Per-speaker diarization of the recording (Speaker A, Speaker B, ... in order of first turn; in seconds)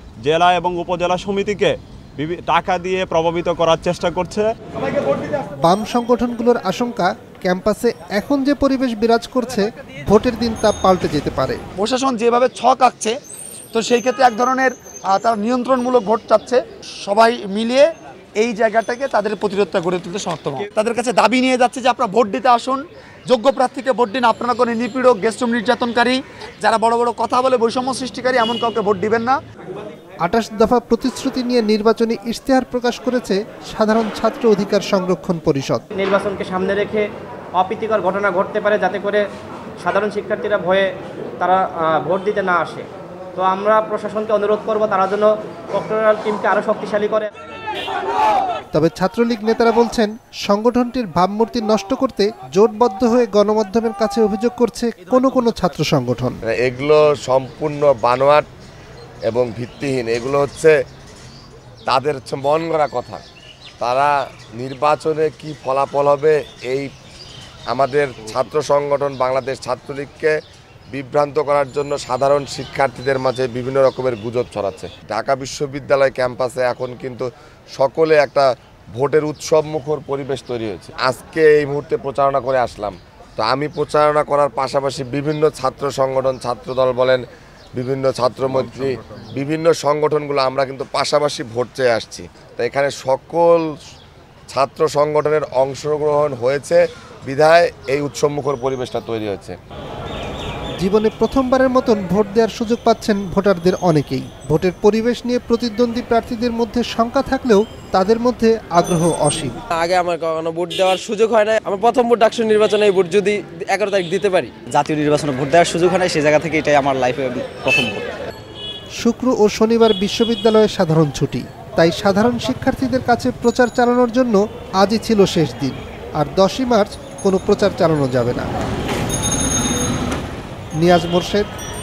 Speaker A: 0.2-4.5
Speaker B: 5.6-11.6, 30.2-35.9, 48.7-56.4, 100.8-109.5, 119.0-128.5, 130.8-131.5
Speaker C: 11.8-13.1, 13.7-29.4
Speaker D: 36.0-37.1, 37.6-39.2, 39.8-40.9, 41.4-42.9, 43.4-47.3
Speaker E: 56.5-58.5, 59.3-60.8, 61.9-63.2, 63.8-66.9, 67.7-70.3, 70.9-87.2, 87.8-93.7, 94.5-99.6
Speaker F: 109.8-114.5
Speaker G: 114.7-118.2